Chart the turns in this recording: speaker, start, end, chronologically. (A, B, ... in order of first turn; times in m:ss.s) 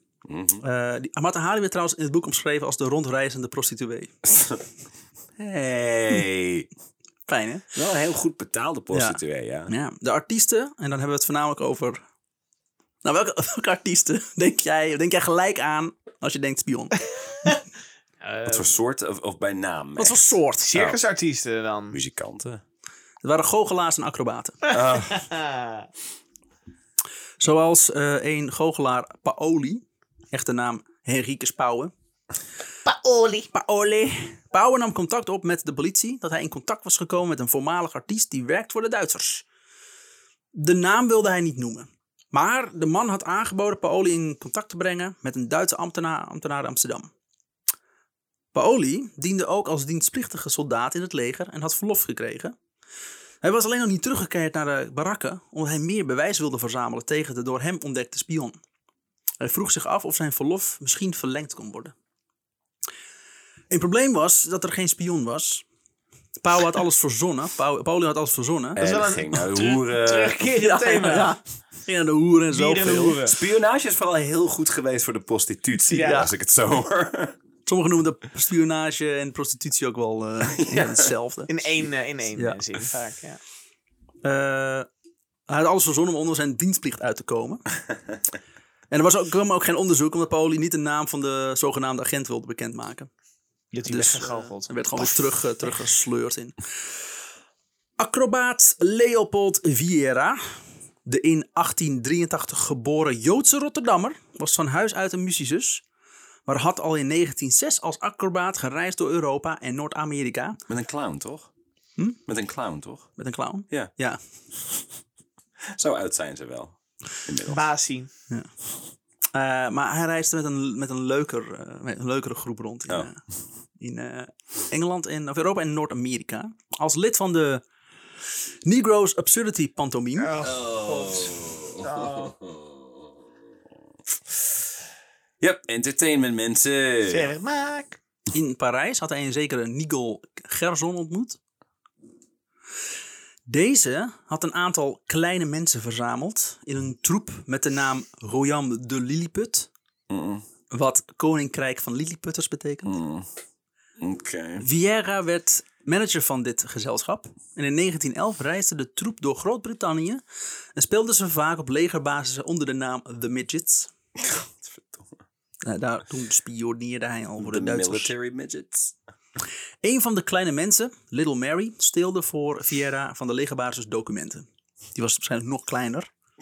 0:00.2-0:00.6 A
0:00.6-0:04.1 B
0:04.3-0:04.6 A
0:05.4-0:06.7 A
0:07.3-0:07.7 B
0:07.7-0:09.7 A
0:08.9-0:12.0 B
0:13.0-0:17.0 B
0:18.2-0:18.7 C
0:18.4-0:21.0 A
0:20.0-0:20.7 B
0:20.6-0:22.0 C
0:21.9-0:22.6 A
0:23.2-0:24.7 B
0:24.7-0:25.9 C
0:24.7-0:25.3 A
0:27.4-0:31.9 B
0:32.8-0:33.5 C
0:33.5-0:39.4 B
0:40.5-0:47.1 B
0:48.5-0:52.6 B
0:53.4-0:58.6 B
0:59.4-1:01.9 B
1:03.7-1:05.6 B
1:06.4-1:08.8 B
1:08.8-1:10.5 A
1:08.8-1:11.4 C
1:10.6-1:13.2 B
1:12.5-1:13.4 C
1:13.2-1:17.4 A
1:15.9-1:16.3 C
1:15.9-1:16.3 B
1:17.6-1:21.5 B
1:20.4-1:21.1 A
1:21.5-1:23.4 C
1:22.3-1:22.6 B
1:24.2-1:24.9 B
1:25.5-1:27.6 B
1:28.9-1:33.1 B
1:33.7-1:35.3 C
1:33.9-1:36.6 B
1:38.0-1:40.4 B
1:41.0-1:45.8 B
1:46.5-1:50.6 B
1:50.7-1:51.5 A
1:52.3-1:53.1 A
1:53.2-1:54.2 B
1:54.5-1:54.8 A
1:55.7-1:57.6 A
1:57.4-1:58.1 C
1:59.3-2:03.2 B
2:03.8-2:07.6 B
2:08.6-2:10.4 B
2:10.2-2:12.3 C
2:10.4-2:13.0 A
2:15.4-2:17.3 A
2:17.1-2:18.0 C
2:18.3-2:21.4 B
2:23.5-2:29.7 B
2:30.1-2:30.4 A
2:30.7-2:33.0 B
2:32.8-2:33.3 A
2:34.0-2:34.6 A
2:34.6-2:40.2 B
2:40.8-2:43.9 B
2:44.2-2:45.2 A
2:45.6-2:48.1 B
2:47.4-2:49.0 A
2:49.8-2:56.1 B